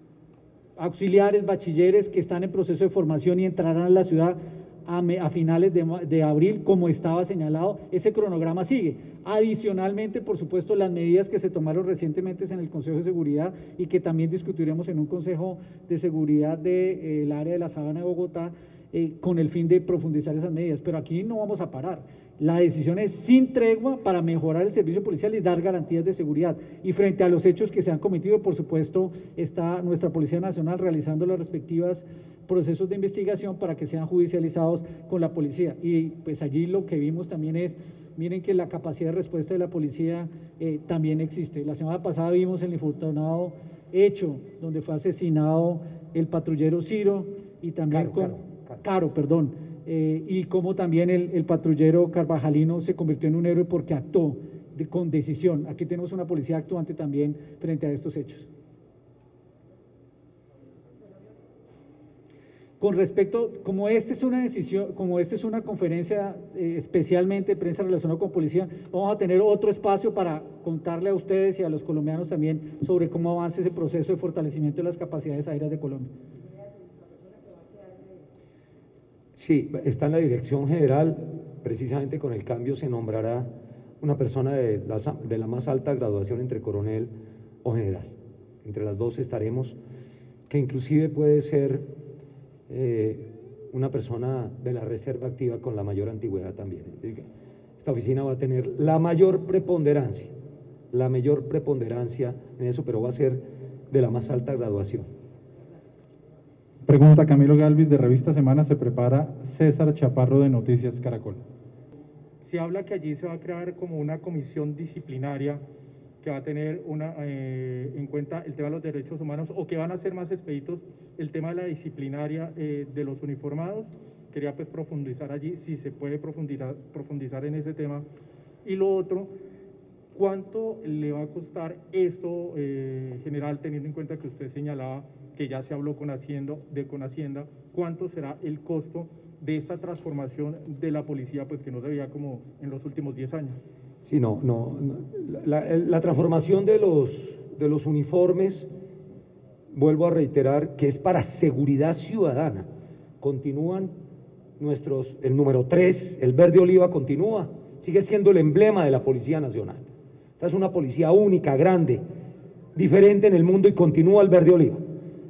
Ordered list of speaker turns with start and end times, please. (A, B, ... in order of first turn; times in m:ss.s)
0:00.8-0:58.5 A
0:47.9-0:48.8 B
1:02.8-1:16.1 A
1:19.3-1:27.1 B
1:27.6-1:28.1 B
1:28.6-1:29.8 B
1:30.5-1:31.9 B
1:32.7-1:37.3 B
1:37.8-1:40.3 B
1:40.9-1:45.1 B
1:46.8-1:51.4 C
1:52.4-1:55.6 D
1:56.2-2:08.0 D
2:08.6-2:09.3 D
2:10.1-2:23.6 D
2:24.0-2:28.7 B
2:29.7-2:32.7 B
2:33.2-2:33.9 B
2:34.6-2:39.8 B
2:40.4-2:42.0 B
2:42.7-2:44.8 B